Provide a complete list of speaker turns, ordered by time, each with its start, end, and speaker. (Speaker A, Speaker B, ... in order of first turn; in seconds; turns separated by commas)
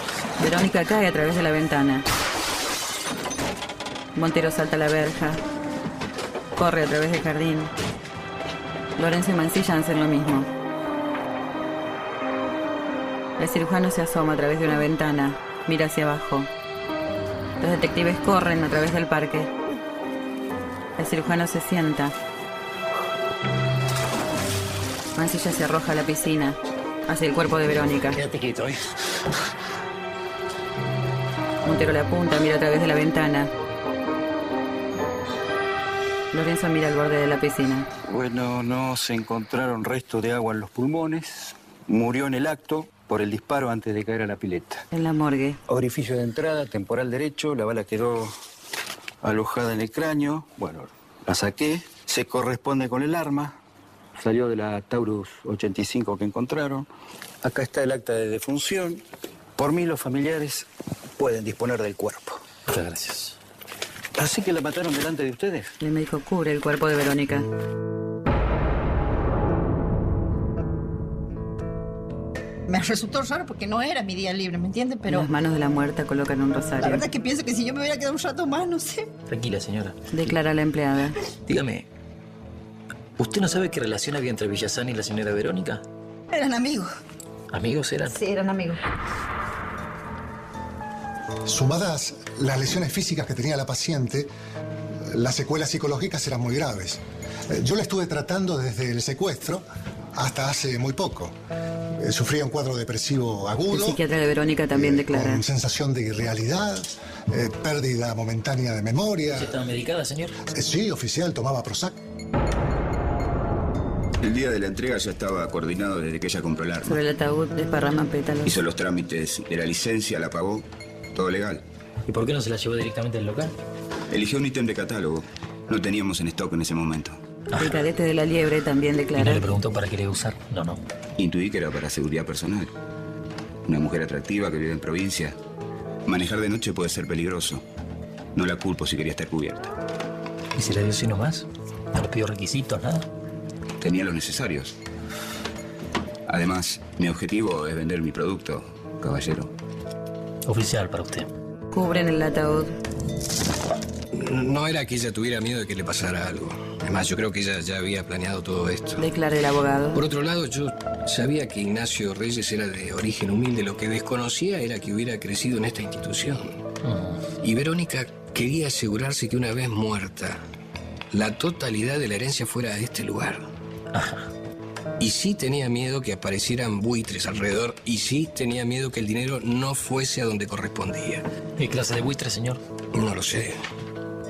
Speaker A: 0.4-2.1, Speaker A: 4.2-5.4, Speaker A: 6.6-7.7, Speaker A: 9.0-10.5, Speaker A: 13.4-16.5, Speaker A: 17.6-19.5, Speaker A: 21.0-22.1, Speaker A: 25.2-28.2, Speaker B: 28.1-28.8, Speaker A: 31.6-33.5, Speaker A: 36.3-37.9, Speaker C: 38.0-44.9, Speaker A: 44.9-45.6, Speaker C: 45.7-48.4, Speaker C: 49.2-53.6, Speaker C: 54.2-56.9, Speaker C: 57.4-59.0, Speaker C: 59.6-62.4, Speaker B: 62.7-63.4, Speaker C: 64.2-65.7, Speaker A: 65.8-67.5, Speaker D: 72.7-75.3, Speaker A: 75.1-77.1, Speaker D: 76.8-79.1, Speaker B: 79.3-80.0, Speaker A: 80.1-81.2, Speaker B: 81.5-81.9, Speaker B: 83.2-85.8, Speaker D: 86.3-86.9, Speaker B: 87.5-88.2, Speaker D: 88.1-88.8, Speaker E: 91.5-94.3, Speaker E: 95.1-101.4, Speaker E: 102.0-104.0, Speaker A: 103.7-105.4, Speaker E: 104.7-109.5, Speaker B: 109.3-110.4, Speaker E: 110.5-112.0, Speaker F: 114.2-117.0, Speaker A: 116.8-118.6, Speaker F: 118.5-121.7, Speaker B: 122.1-123.5, Speaker F: 124.1-127.2, Speaker B: 127.5-127.8, Speaker A: 127.6-129.5, Speaker B: 129.2-130.8, Speaker F: 131.2-132.7, Speaker F: 133.7-135.4, Speaker F: 136.1-137.6, Speaker F: 138.3-139.7, Speaker B: 140.6-143.1, Speaker F: 143.8-144.8, Speaker F: 146.3-149.5, Speaker B: 150.5-151.3, Speaker A: 151.7-152.7, Speaker G: 154.1-159.1, Speaker A: 159.0-160.0, Speaker G: 159.9-166.6, Speaker B: 166.8-167.2, Speaker G: 167.4-170.4, Speaker G: 171.1-173.5, Speaker B: 173.9-174.3, Speaker G: 175.0-181.2, Speaker B: 181.6-182.6, Speaker G: 182.9-183.6